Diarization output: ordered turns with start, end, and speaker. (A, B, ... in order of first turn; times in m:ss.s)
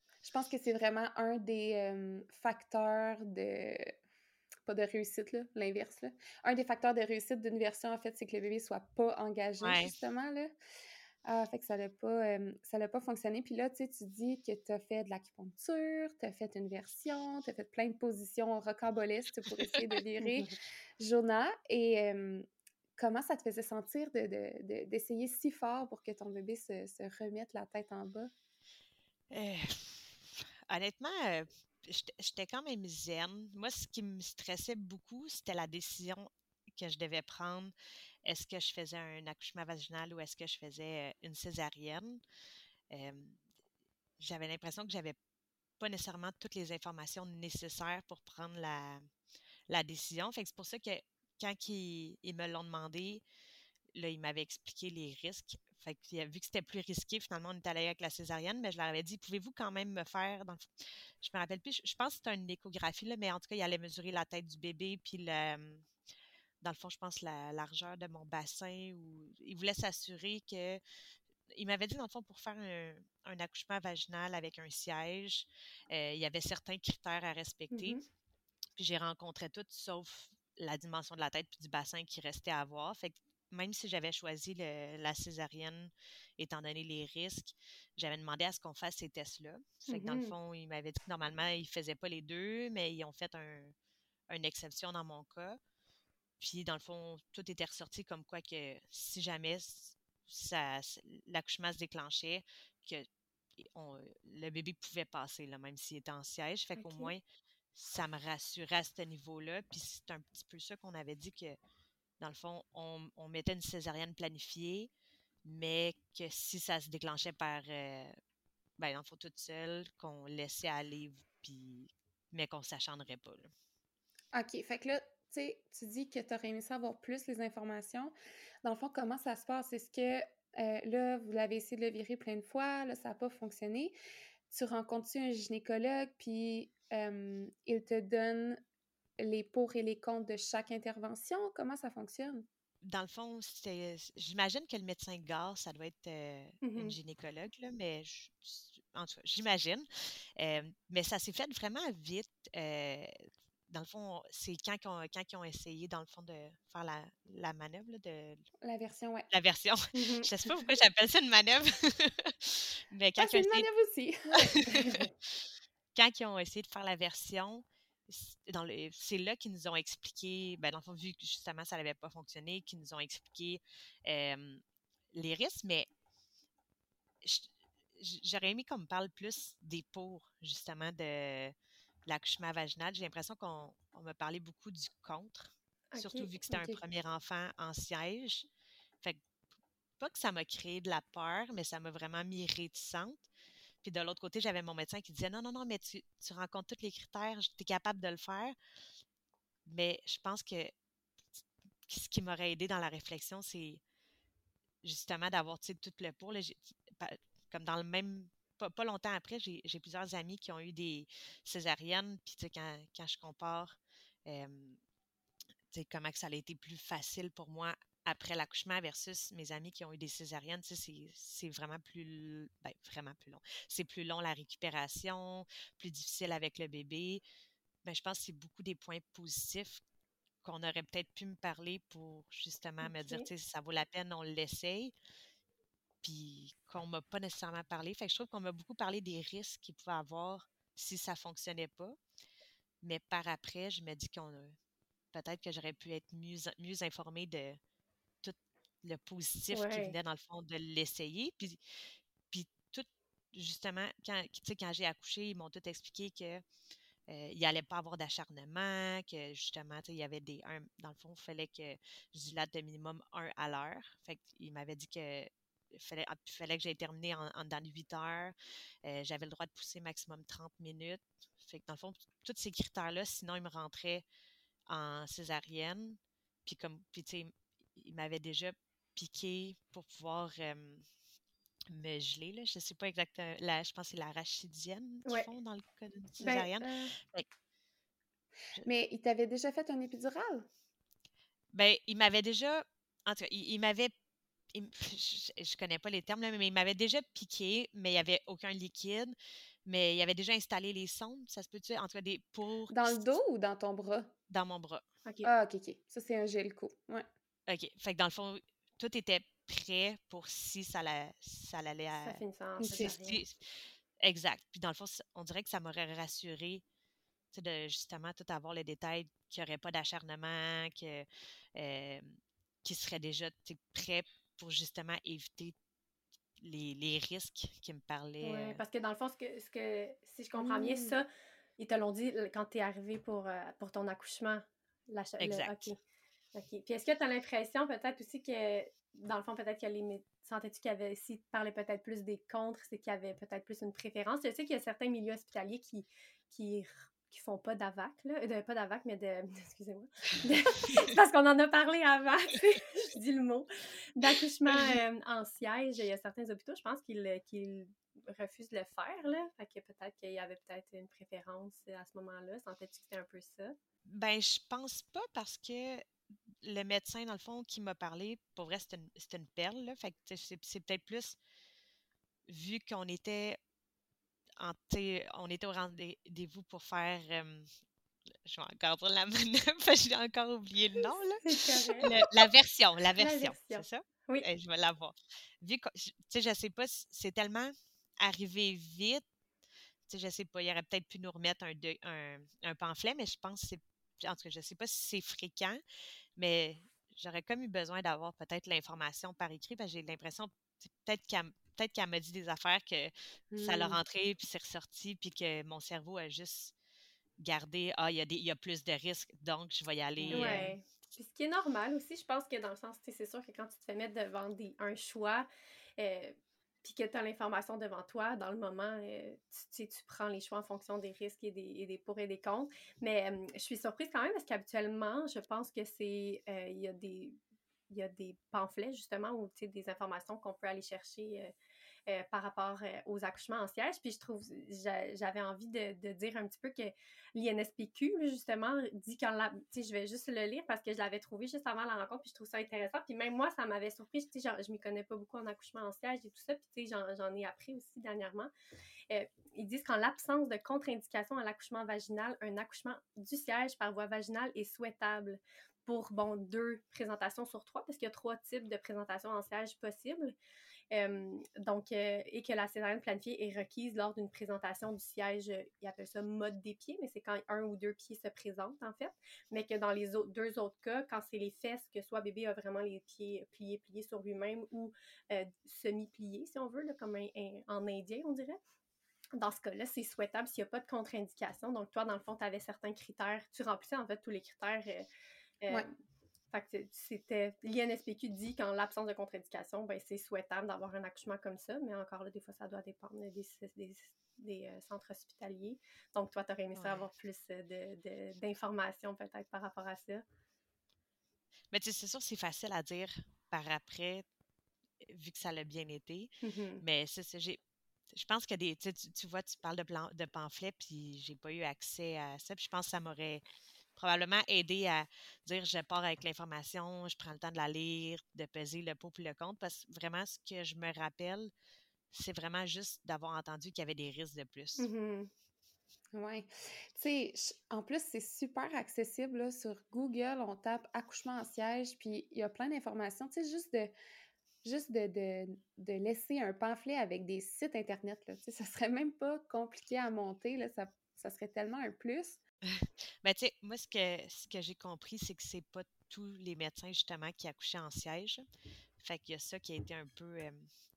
0:00.2-0:03.9 A
0:04.7-0:10.5 A
0:09.6-0:09.9 B
0:11.2-0:22.5 A
0:23.0-0:28.3 A
0:29.3-0:37.7 B
0:38.3-0:42.2 B
0:42.9-0:43.4 B
0:44.2-0:45.2 B
0:45.8-0:49.0 B
0:49.7-0:53.2 B
0:54.0-1:00.7 B
1:01.2-1:05.9 B
1:06.6-1:10.8 B
1:11.5-1:18.0 B
1:17.7-1:18.0 C
1:18.8-1:33.7 B
1:29.9-1:30.3 C
1:34.3-1:35.6 B
1:36.4-1:43.1 B
1:43.6-1:47.2 B
1:46.8-1:47.1 C
1:47.7-1:51.6 B
1:52.2-1:54.9 B
1:55.4-1:58.2 B
1:58.8-2:03.5 B
2:04.3-2:08.1 A
2:08.6-2:13.9 A
2:14.5-2:18.6 A
2:19.2-2:22.5 A
2:22.8-2:33.1 B
2:26.6-2:27.0 C
2:33.7-2:38.4 B
2:38.6-2:39.3 A
2:39.3-2:43.7 B
2:39.9-2:40.6 C
2:43.2-2:44.6 A
2:44.3-2:54.6 B
2:44.7-2:45.1 C
2:55.1-2:55.9 B
2:57.2-3:01.5 B
3:02.1-3:08.5 B
3:05.9-3:06.4 C
3:06.5-3:06.8 A
3:10.0-3:13.2 B
3:13.8-3:18.6 B
3:19.7-3:20.7 B
3:21.9-3:23.8 B
3:24.8-3:34.8 B
3:35.7-3:47.2 B
3:47.8-3:49.8 B
3:50.4-3:54.9 B
3:52.8-3:53.3 C
3:56.0-4:02.0 B
4:02.8-4:04.6 B
4:05.1-4:07.6 B
4:08.2-4:11.8 B
4:09.5-4:10.0 C
4:12.3-4:16.4 B
4:17.1-4:34.0 B
4:34.7-4:40.9 B
4:41.7-4:47.3 B
4:46.2-4:46.9 C
4:48.6-4:50.5 A
4:51.5-4:53.9 B
4:54.5-4:59.2 B
4:59.7-5:03.2 B
5:02.7-5:04.1 A
5:04.3-5:04.8 B
5:05.0-5:05.3 C
5:05.2-5:07.1 A
5:07.5-5:16.6 B
5:12.0-5:13.2 C
5:12.6-5:12.9 A
5:17.3-5:25.5 B
5:26.4-5:28.6 B
5:28.2-5:31.1 C
5:30.3-5:31.0 A
5:31.6-5:35.8 C
5:35.2-5:35.7 B
5:36.4-6:03.6 C
6:03.9-6:05.8 B
6:06.4-6:11.2 B
6:12.3-6:13.4 B
6:14.4-6:17.5 B
6:18.2-6:29.0 B
6:21.2-6:21.9 C
6:23.0-6:24.3 C
6:29.9-6:35.6 B
6:36.2-6:46.5 B
6:43.3-6:43.8 C
6:47.2-6:50.5 B
6:50.0-6:50.5 A
6:50.1-6:55.3 C
6:55.8-7:07.2 C
7:07.7-7:11.3 C
7:11.9-7:28.3 C
7:28.9-7:40.2 C
7:40.7-7:58.4 C
7:59.2-8:04.9 C
8:05.4-8:05.7 C
8:06.3-8:20.0 C
8:16.6-8:16.8 B
8:21.5-8:24.0 B
8:24.8-8:27.4 B
8:26.2-8:26.6 C
8:27.9-8:33.2 B
8:33.8-8:41.3 B
8:41.9-8:44.7 B
8:44.6-8:45.1 C
8:45.9-8:53.7 A
8:54.4-9:02.2 A
9:02.5-9:08.2 B
9:08.8-9:10.5 B